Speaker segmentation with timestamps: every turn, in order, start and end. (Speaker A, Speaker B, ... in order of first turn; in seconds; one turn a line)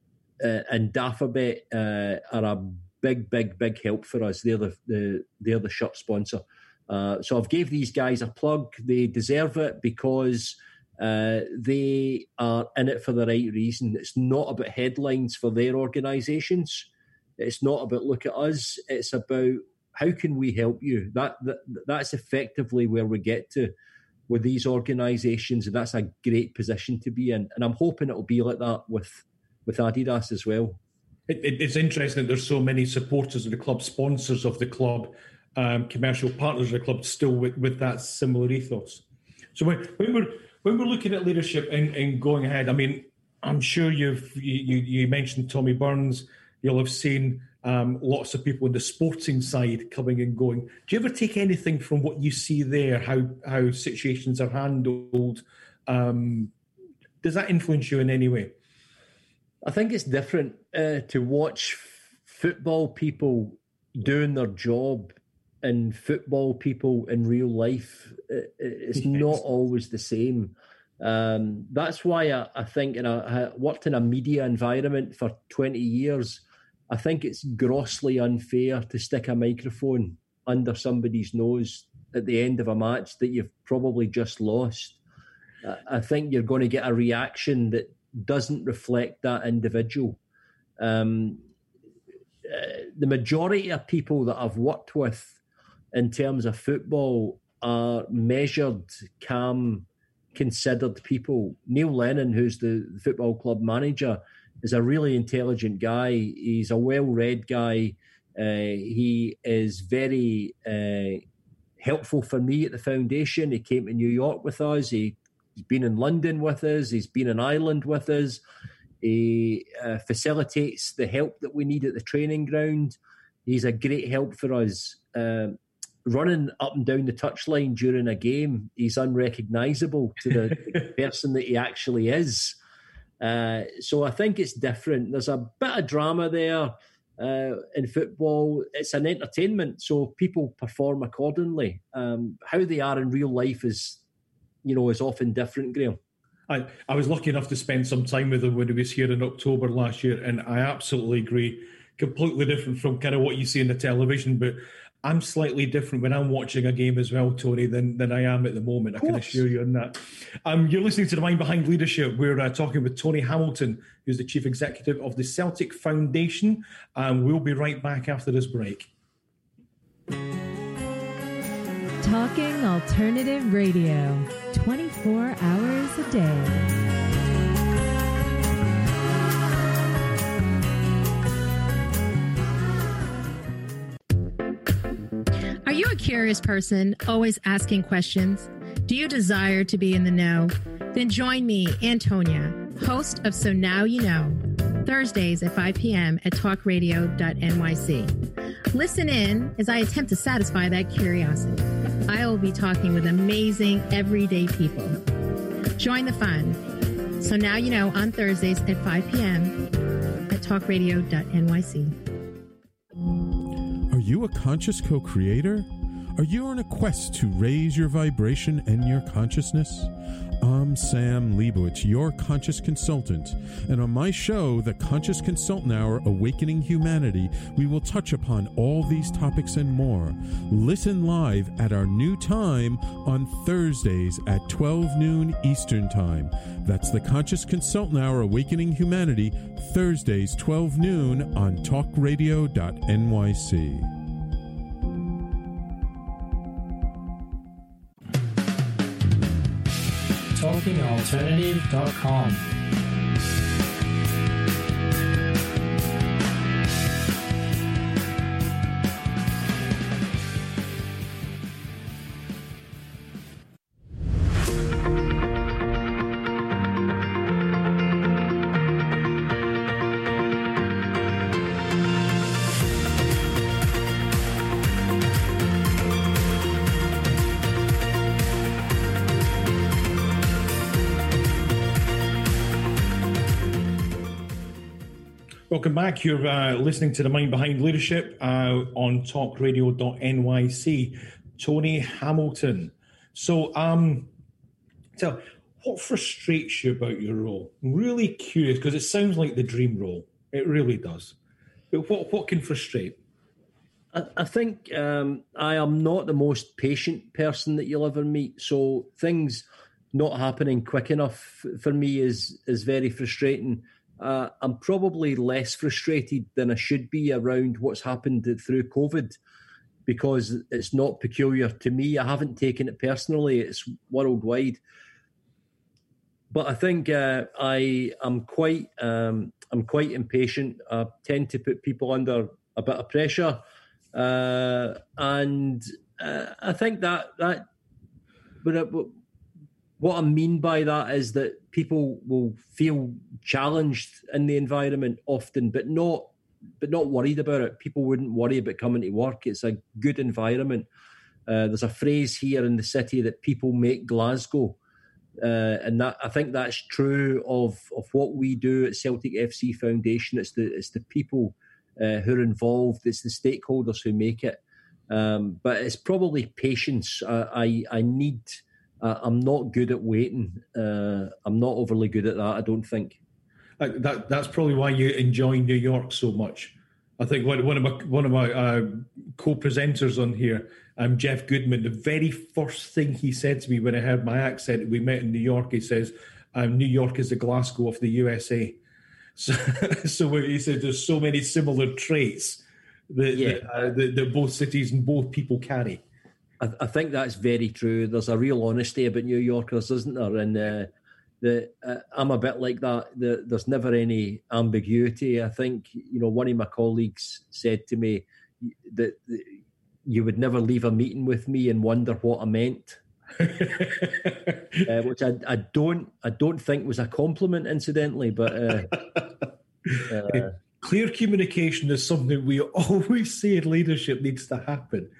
Speaker A: 0.4-23.7
Speaker A: 24.3-30.8
Speaker B: 31.3-39.0
Speaker B: 39.5-56.5
Speaker B: 57.2-58.5
Speaker A: 59.6-85.0
Speaker A: 85.6-90.2
Speaker A: 90.8-91.4
Speaker A: 92.5-95.4
Speaker A: 95.9-111.2
Speaker A: 111.8-118.4
Speaker A: 119.0-132.6
Speaker A: 133.2-144.0
Speaker A: 144.6-146.0
Speaker B: 146.5-168.9
Speaker C: 172.0-176.7
Speaker D: 185.7-198.2
Speaker D: 198.7-205.0
Speaker D: 205.8-206.6
Speaker D: 207.2-209.6
Speaker D: 210.3-211.9
Speaker E: 213.9-243.9
Speaker F: 250.3-252.5
Speaker B: 285.5-294.1
Speaker B: 295.0-301.1
Speaker B: 301.7-303.0
Speaker A: 303.9-319.1
Speaker A: 319.9-324.6
Speaker A: 326.3-333.4
Speaker A: 333.9-337.4
Speaker A: 338.4-338.9
Speaker A: 339.8-346.1
Speaker A: 346.6-350.7
Speaker A: 351.3-354.6
Speaker A: 355.2-364.4
Speaker A: 364.9-373.0
Speaker B: 373.6-388.6
Speaker B: 389.2-395.8
Speaker A: 393.1-393.7
Speaker A: 396.4-412.8
Speaker B: 413.2-414.6
Speaker A: 414.7-418.8
Speaker B: 418.7-419.0
Speaker B: 419.7-424.9
Speaker A: 419.8-420.3